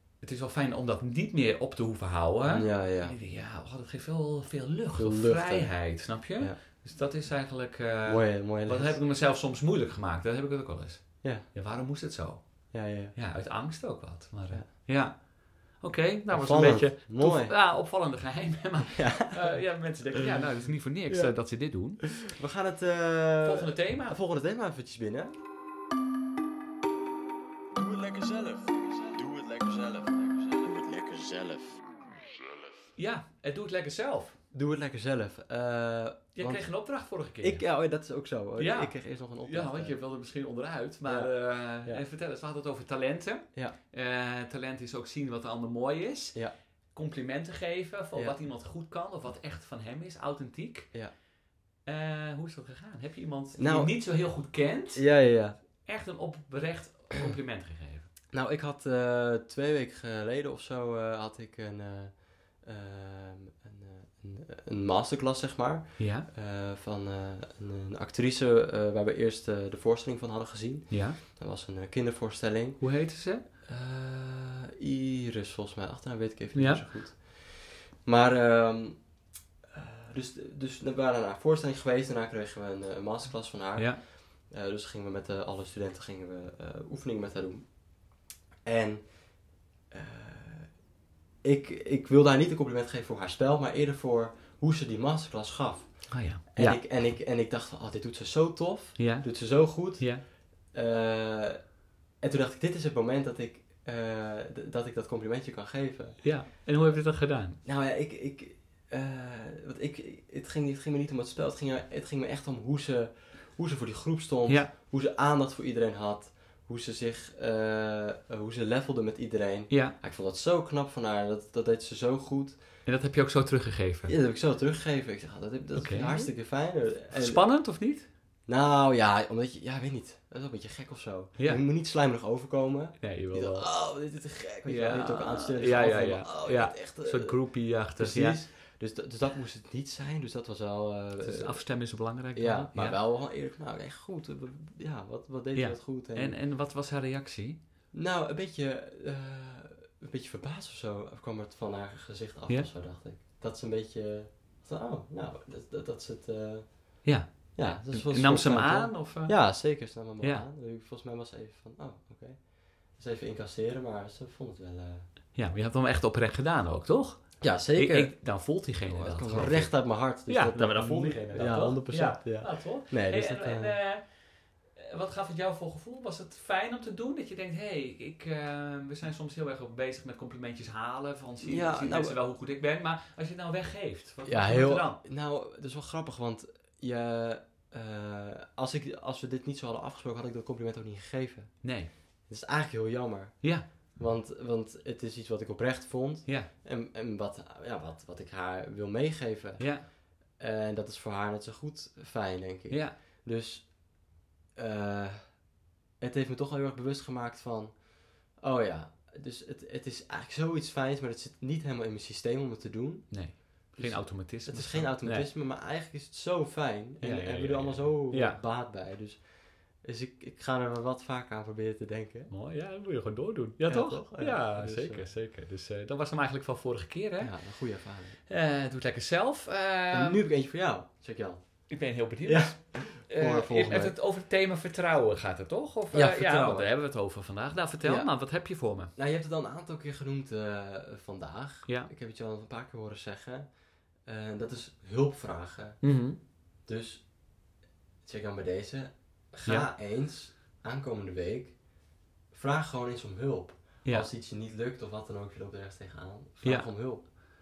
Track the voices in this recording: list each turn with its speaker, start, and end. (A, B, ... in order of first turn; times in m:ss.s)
0:00.2-0:22.3 A
0:02.5-0:03.2 B
0:05.0-0:05.8 B
0:08.1-0:09.0 B
0:12.7-0:13.2 B
0:16.3-0:17.5 B
0:18.9-0:19.6 B
0:22.1-0:25.3 B
0:23.4-0:24.2 A
0:27.8-0:32.6 C
0:33.0-0:34.4 A
0:34.5-0:36.7 B
0:36.4-0:37.6 A
0:37.4-0:40.0 B
0:38.6-0:46.4 A
0:41.1-0:42.0 B
0:46.9-0:50.9 A
0:51.9-0:55.1 A
0:53.6-0:53.9 B
0:55.0-0:55.6 B
0:55.8-0:58.1 A
0:58.3-1:12.9 B
1:06.0-1:06.3 A
1:10.9-1:11.2 A
1:12.8-1:13.4 A
1:13.6-1:19.0 B
1:16.5-1:16.8 A
1:19.7-1:27.7 B
1:28.6-1:29.1 B
1:29.9-1:30.7 B
1:31.4-1:40.2 B
1:36.1-1:36.8 A
1:39.0-1:40.2 A
1:40.7-1:41.6 B
1:42.2-1:46.2 B
1:46.2-1:47.6 A
1:47.6-2:02.6 B
1:59.7-2:00.0 A
2:02.9-2:04.2 A
2:04.1-2:07.4 B
2:05.7-2:06.3 A
2:07.1-2:08.1 A
2:08.5-2:17.4 B
2:13.0-2:13.7 A
2:14.6-2:18.4 A
2:18.0-2:21.6 B
2:21.2-2:23.0 A
2:22.4-2:26.4 B
2:25.6-2:27.6 A
2:27.9-2:45.1 B
2:37.0-2:39.6 A
2:40.2-2:40.4 A
2:45.3-2:54.1 A
2:47.4-2:48.2 B
2:48.9-2:53.8 B
2:54.8-3:05.0 A
3:01.4-3:02.2 B
3:04.2-3:11.6 B
3:11.6-3:11.9 A
3:12.3-3:19.7 B
3:19.6-3:19.9 A
3:20.4-3:23.8 B
3:22.7-3:23.0 A
3:24.6-3:25.4 B
3:26.0-3:27.8 B
3:28.4-3:42.3 B
3:33.1-3:35.3 A
3:37.0-3:38.4 A
3:42.3-3:47.6 A
3:43.7-3:45.1 B
3:47.2-3:48.2 B
3:48.3-3:50.2 A
3:49.9-3:51.7 B
3:51.7-3:58.9 A
3:52.2-3:54.0 B
3:55.9-3:56.7 B
3:57.8-3:58.1 B
3:59.0-4:03.5 B
4:04.1-4:05.8 B
4:05.8-4:06.2 A
4:06.7-4:07.1 B
4:08.0-4:11.6 B
4:12.3-4:17.0 B
4:16.4-4:16.7 A